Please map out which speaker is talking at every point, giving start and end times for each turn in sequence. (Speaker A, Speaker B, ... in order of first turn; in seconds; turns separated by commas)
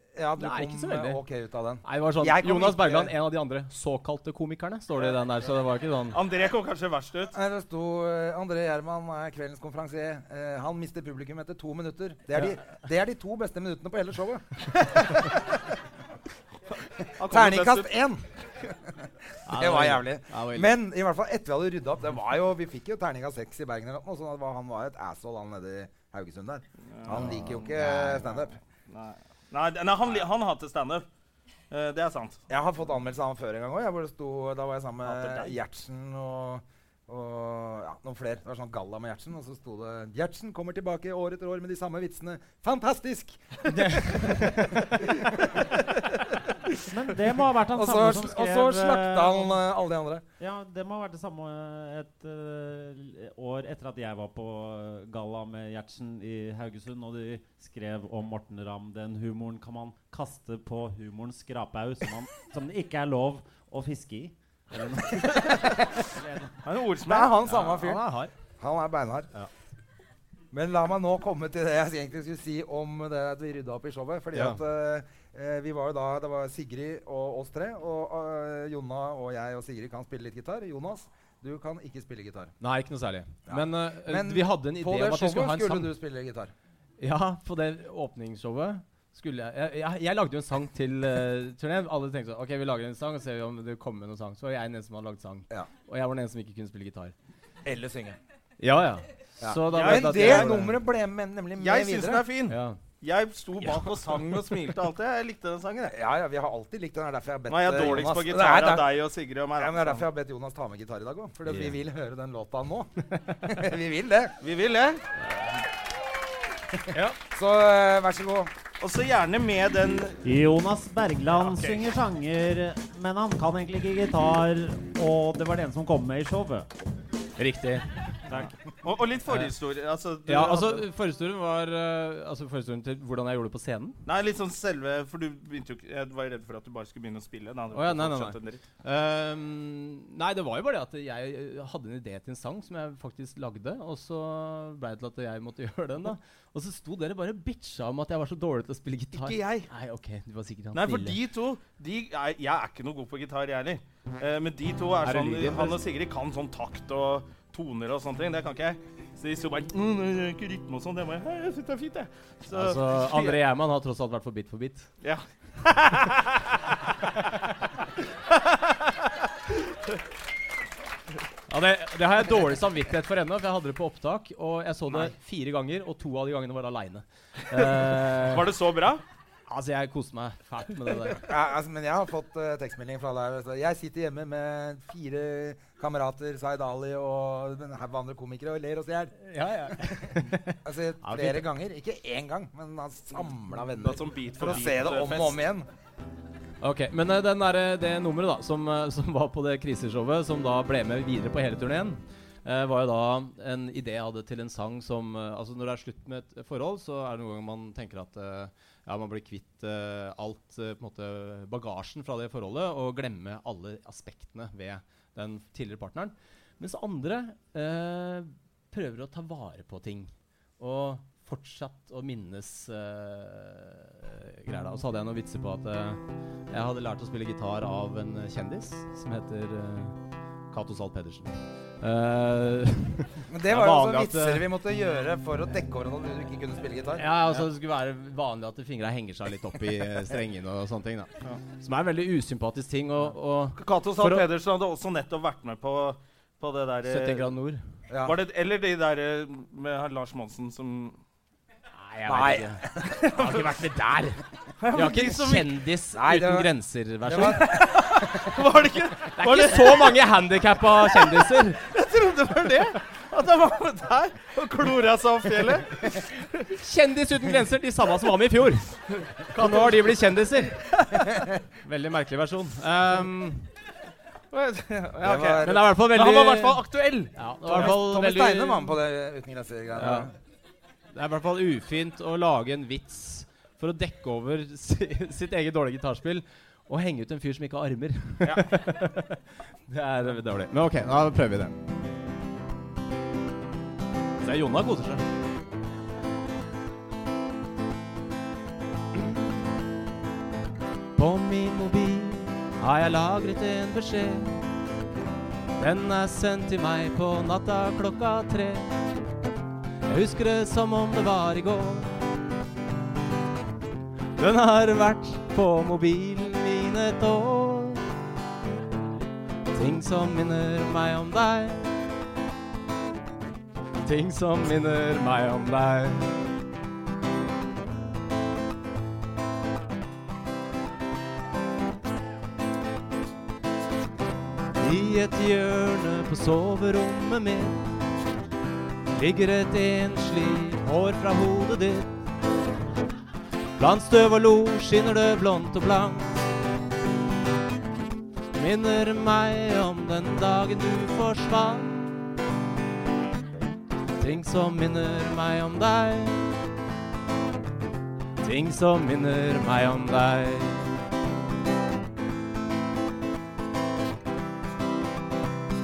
Speaker A: 0.1-3.1, Speaker B: 0.4-1.2, Speaker B: 1.8-6.2, Speaker C: 6.1-7.3, Speaker A: 7.3-15.3, Speaker C: 16.7-17.9, Speaker A: 17.2-28.5, Speaker B: 19.5-20.7, Speaker C: 26.9-31.1, Speaker B: 27.1-28.3, Speaker C: 31.7-32.4, Speaker A: 32.5-45.7, Speaker C: 35.0-35.5, Speaker B: 43.7-44.7, Speaker D: 46.9-49.6, Speaker A: 47.7-50.2, Speaker D: 50.4-66.5, Speaker C: 66.6-67.4, Speaker A: 67.0-68.0, Speaker B: 67.4-68.3, Speaker A: 68.6-69.3, Speaker A: 70.5-82.5, Speaker B: 74.3-74.6, Speaker B: 82.6-85.9, Speaker A: 83.5-86.5, Speaker B: 87.0-97.1, Speaker A: 97.6-98.2, Speaker B: 98.6-100.7, Speaker A: 99.4-102.3, Speaker C: 99.7-100.7, Speaker C: 101.6-105.9, Speaker B: 102.5-102.8, Speaker B: 103.6-104.3, Speaker A: 105.8-109.0, Speaker C: 107.5-110.0, Speaker A: 109.5-114.3, Speaker B: 111.5-111.7, Speaker C: 114.4-115.0, Speaker A: 116.7-118.5, Speaker C: 118.8-120.2, Speaker D: 120.2-126.7, Speaker C: 121.4-121.9, Speaker B: 127.4-128.5, Speaker C: 128.8-130.8, Speaker B: 130.3-134.0, Speaker C: 134.1-138.6, Speaker B: 137.7-151.2, Speaker C: 149.1-149.7, Speaker C: 150.7-163.4, Speaker B: 155.0-155.8, Speaker B: 162.5-164.9, Speaker C: 165.0-166.7, Speaker C: 168.3-168.9, Speaker B: 171.5-178.5, Speaker C: 177.6-179.0, Speaker B: 179.5-181.3, Speaker A: 181.3-189.1, Speaker B: 189.2-191.5, Speaker A: 190.6-195.7, Speaker C: 193.8-195.4, Speaker B: 196.6-230.0, Speaker B: 230.5-234.4, Speaker A: 233.3-237.1, Speaker B: 236.9-244.3, Speaker C: 243.6-247.3, Speaker B: 246.8-247.6, Speaker A: 247.9-248.2, Speaker C: 248.0-251.0, Speaker B: 251.7-254.2, Speaker A: 252.0-253.0, Speaker C: 253.0-253.5, Speaker C: 254.6-255.6, Speaker B: 254.7-258.2, Speaker A: 255.9-256.5, Speaker A: 257.0-258.2, Speaker C: 257.2-260.1, Speaker B: 259.2-261.6, Speaker C: 260.8-266.5, Speaker B: 266.6-268.8, Speaker C: 269.0-270.0, Speaker B: 269.3-270.6, Speaker A: 270.9-271.3, Speaker B: 271.6-273.5, Speaker C: 274.3-277.8, Speaker A: 275.0-275.7, Speaker B: 275.4-276.6, Speaker B: 277.1-278.8, Speaker A: 277.5-280.1, Speaker B: 279.8-280.1, Speaker B: 280.9-291.5, Speaker C: 288.2-288.5, Speaker B: 294.2-295.0, Speaker B: 298.9-299.6, Speaker B: 300.9-304.4, Speaker B: 305.6-308.7, Speaker B: 309.9-312.0, Speaker B: 314.2-317.8, Speaker B: 319.5-321.7, Speaker B: 323.8-326.1, Speaker B: 334.6-337.7, Speaker B: 338.9-341.9, Speaker B: 343.6-346.2, Speaker B: 348.3-351.9, Speaker B: 354.0-356.4, Speaker B: 358.2-360.7